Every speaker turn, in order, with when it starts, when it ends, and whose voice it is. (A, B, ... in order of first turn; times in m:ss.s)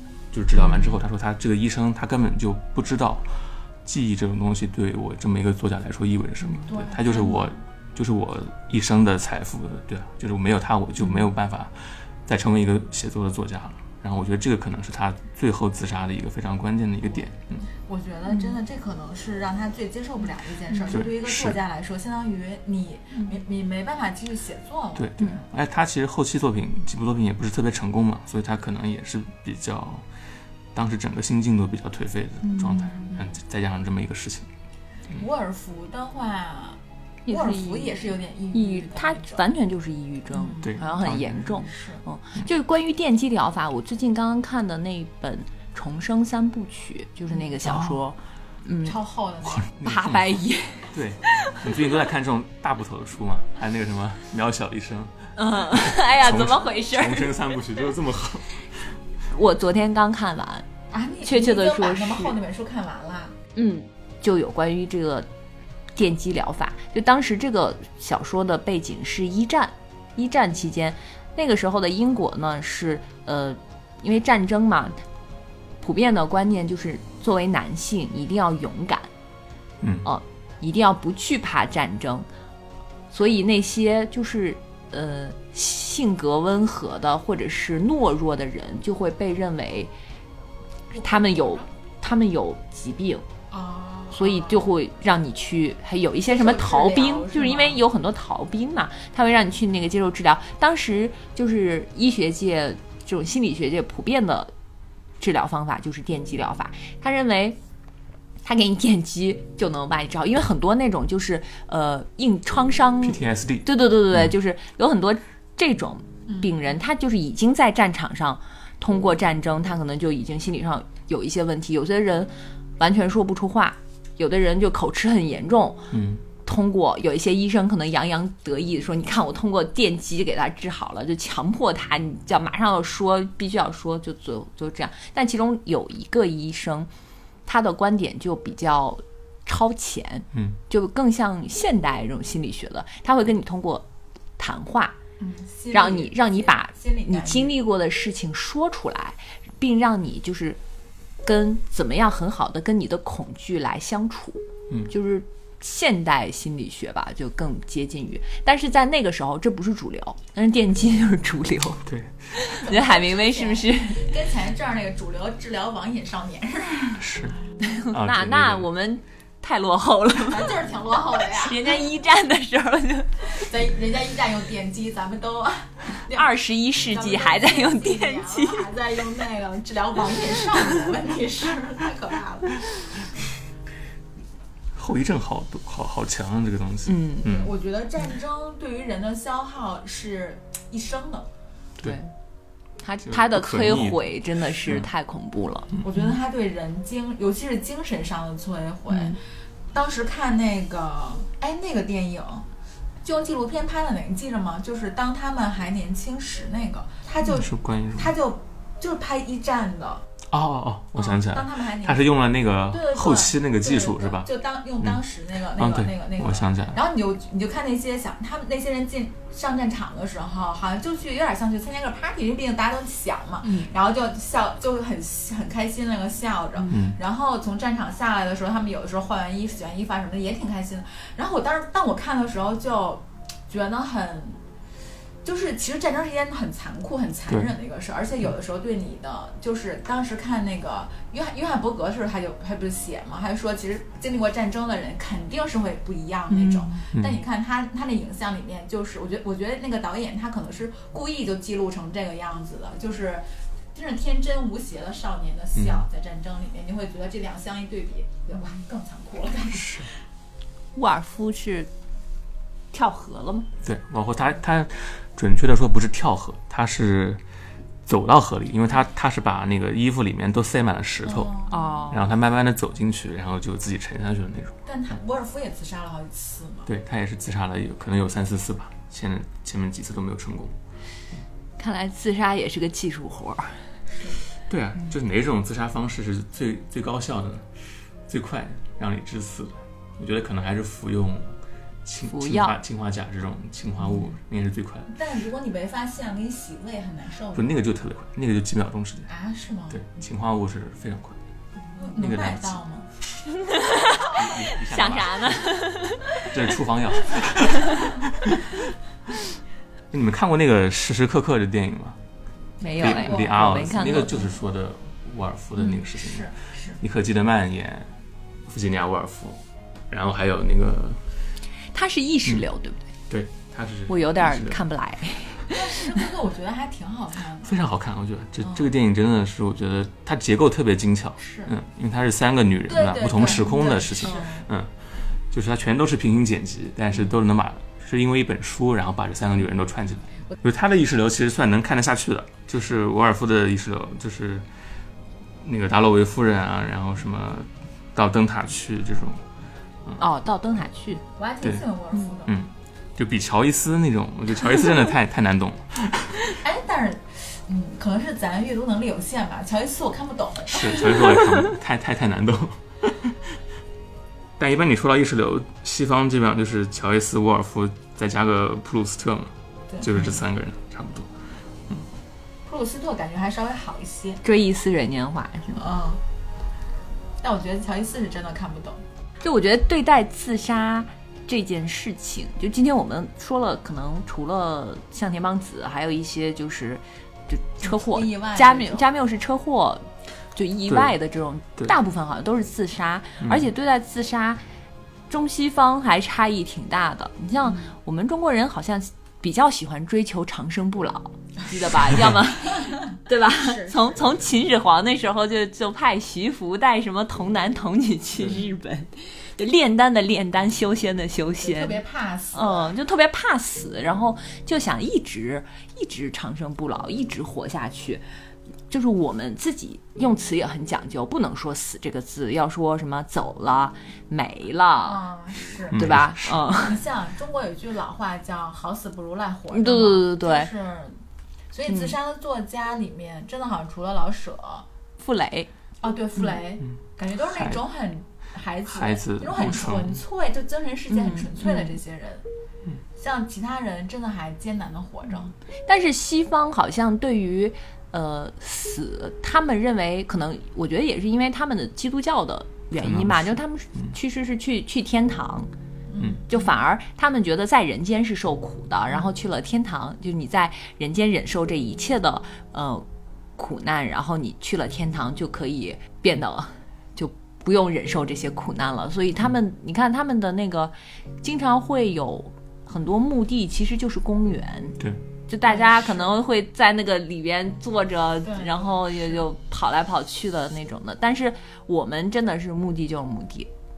0:00.3-0:17.6 A
0:00.6-0:01.0 B
0:06.4-0:06.7 B
0:06.7-0:07.5 C
0:17.8-0:25.4 C
0:20.9-0:21.6 A
0:25.0-0:30.0 A
0:30.7-0:34.5 A
0:32.4-0:33.1 B
0:35.1-0:39.4 C
0:37.2-0:49.0 B
0:40.3-0:40.8 C
0:40.6-0:41.6 A
0:41.5-0:42.0 C
0:47.6-0:48.0 A
0:48.8-0:49.7 C
0:49.4-0:50.3 A
0:49.8-0:51.6 B
0:50.9-0:58.8 A
0:55.4-0:57.3 B
0:59.3-1:00.7 B
1:00.9-1:03.4 C
1:01.2-1:02.3 B
1:03.5-1:05.3 B
1:06.0-1:15.0 B
1:15.8-1:19.1 B
1:19.8-1:20.1 A
1:20.0-1:22.3 B
1:23.1-1:29.9 B
1:30.9-1:31.6 C
1:31.0-1:33.2 B
1:33.5-1:34.6 C
1:34.1-1:44.5 B
1:36.2-1:37.8 C
1:45.2-1:47.6 B
1:48.4-2:05.9 B
1:53.0-1:54.3 A
1:56.3-1:56.5 C
2:05.9-2:06.2 A
2:06.4-2:16.9 B
2:17.5-2:23.8 B
2:24.4-2:25.0 B
2:25.2-2:27.5 C
2:25.7-2:30.6 B
2:31.2-2:44.2 B
2:41.8-2:42.2 A
2:42.4-2:47.0 C
2:47.0-2:47.4 A
2:47.6-2:50.6 B
2:47.9-2:48.7 A
2:50.2-2:51.7 C
2:51.3-2:53.3 B
2:53.3-3:02.7 C
2:56.1-2:58.7 B
3:04.7-3:07.5 A
3:06.8-3:07.3 B
3:07.2-3:11.3 C
3:11.8-3:12.1 B
3:12.8-3:16.1 B
3:13.0-3:14.9 A
3:15.8-3:19.2 C
3:18.9-3:19.2 B
3:19.7-3:22.4 C
3:23.0-3:30.0 C
3:27.2-3:28.2 A
3:30.3-3:34.3 A
3:30.9-3:32.1 C
3:32.7-3:54.4 C
3:35.5-3:36.8 A
3:43.4-3:43.7 B
3:46.7-3:47.0 A
3:55.2-4:19.9 C
3:57.3-3:57.5 A
4:06.3-4:06.8 B
4:06.9-4:07.2 A
4:15.6-4:15.8 A
4:19.5-4:19.9 A
4:20.7-4:21.7 B
4:22.7-4:23.5 B
4:23.6-4:27.2 A
4:27.8-4:31.3 A
4:31.0-4:31.6 C
4:31.5-4:32.1 B
4:31.9-4:34.6 A
4:34.6-4:36.7 C
4:36.7-4:40.5 A
4:41.6-4:43.6 B
4:44.5-4:47.5 A
4:48.1-4:54.9 A
4:52.1-4:52.6 B
4:54.9-4:57.6 C
4:57.3-4:59.1 A
4:59.1-4:59.9 C
4:59.7-5:01.2 A
5:01.7-5:02.9 C
5:01.9-5:02.6 A
5:03.3-5:06.3 B
5:04.0-5:05.6 A
5:06.2-5:08.6 A
5:07.5-5:07.9 B
5:09.9-5:12.0 A
5:12.6-5:14.2 B
5:12.8-5:17.9 A
5:12.8-5:14.3 C
5:15.9-5:16.8 C
5:18.5-5:21.0 A
5:21.7-5:22.8 B
5:23.1-5:24.6 A
5:23.9-5:26.0 B
5:25.5-5:27.5 C
5:27.4-5:44.5 A
5:28.4-5:28.7 C
5:31.2-5:31.5 C
5:32.7-5:34.5 C
5:45.4-5:49.2 A
5:50.0-5:51.0 B
5:51.2-5:52.4 C
5:52.3-5:56.2 A
5:56.4-6:01.2 C
6:00.5-6:03.3 A
6:04.4-6:11.1 A
6:09.7-6:10.2 C
6:12.4-6:14.2 C
6:14.2-6:15.7 B
6:15.6-6:16.0 C
6:17.2-6:18.8 C
6:19.2-6:34.4 B
6:27.6-6:28.9 C
6:30.7-6:30.9 A
6:33.2-6:33.5 A
6:35.1-6:51.8 B
6:41.7-6:44.3 C
6:51.4-6:52.7 C
6:52.3-6:58.0 B
6:58.7-7:05.0 B
7:04.8-7:11.0 C
7:05.7-7:06.8 B
7:05.7-7:06.4 A
7:09.5-7:10.5 B
7:11.5-7:14.6 C
7:11.7-7:11.9 B
7:15.0-7:15.5 B
7:15.8-7:22.2 C
7:17.3-7:17.6 A
7:18.7-7:20.0 A
7:20.9-7:21.8 B
7:23.0-7:25.3 C
7:25.6-7:35.5 B
7:32.8-7:33.9 A
7:35.9-7:36.5 C
7:36.3-7:42.8 B
7:43.4-8:03.5 B
7:55.4-7:56.2 C
7:58.2-7:59.2 C